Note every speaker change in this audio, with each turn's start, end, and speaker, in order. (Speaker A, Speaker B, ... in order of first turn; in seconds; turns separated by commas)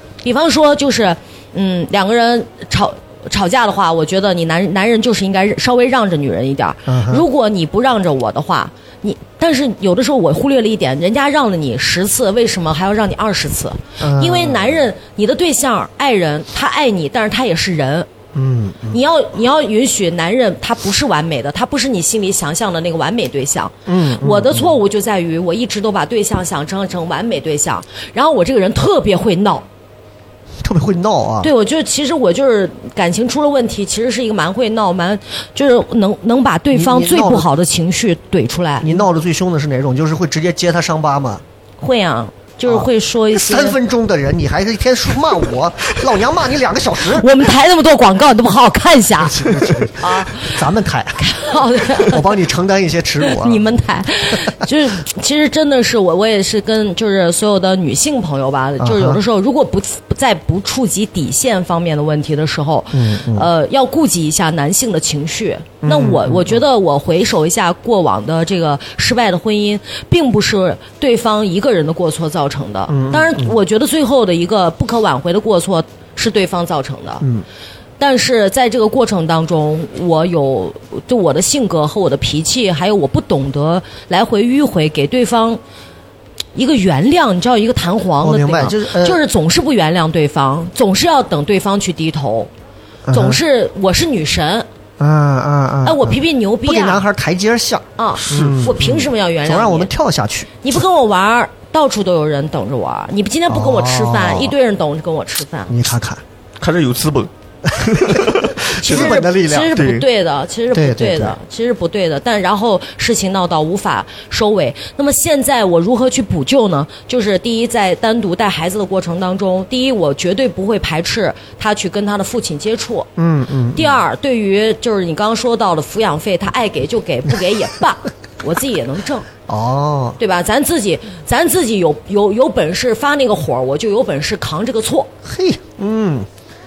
Speaker A: 0.2-18.1, Speaker B: 6.9-7.2, Speaker B: 14.0-14.8, Speaker B: 18.4-19.0, Speaker A: 18.9-29.7, Speaker B: 23.9-24.8, Speaker B: 30.6-31.5, Speaker A: 31.4-39.0, Speaker B: 36.7-37.5, Speaker B: 38.8-41.4, Speaker A: 41.8-43.8, Speaker B: 42.7-47.3, Speaker A: 47.1-50.5, Speaker B: 49.2-51.2, Speaker A: 51.2-52.2, Speaker B: 52.0-53.6, Speaker A: 53.3-77.2, Speaker B: 58.8-59.2, Speaker B: 62.9-63.5, Speaker B: 65.8-66.6, Speaker B: 72.9-73.5, Speaker B: 77.2-77.5, Speaker A: 78.0-85.6, Speaker A: 86.5-92.5, Speaker B: 88.2-89.2, Speaker B: 93.1-93.4, Speaker A: 93.1-94.7, Speaker B: 95.0-100.5, Speaker A: 95.8-97.1, Speaker A: 98.0-99.9, Speaker C: 98.2-98.6, Speaker A: 100.6-105.7, Speaker B: 103.5-104.5, Speaker B: 105.7-106.2, Speaker C: 106.6-109.2, Speaker B: 107.7-109.8, Speaker A: 108.8-123.1, Speaker C: 109.7-110.0, Speaker B: 110.7-111.4, Speaker B: 123.2-124.0, Speaker A: 123.7-129.3, Speaker B: 129.5-130.2, Speaker A: 130.2-135.1, Speaker B: 135.2-136.3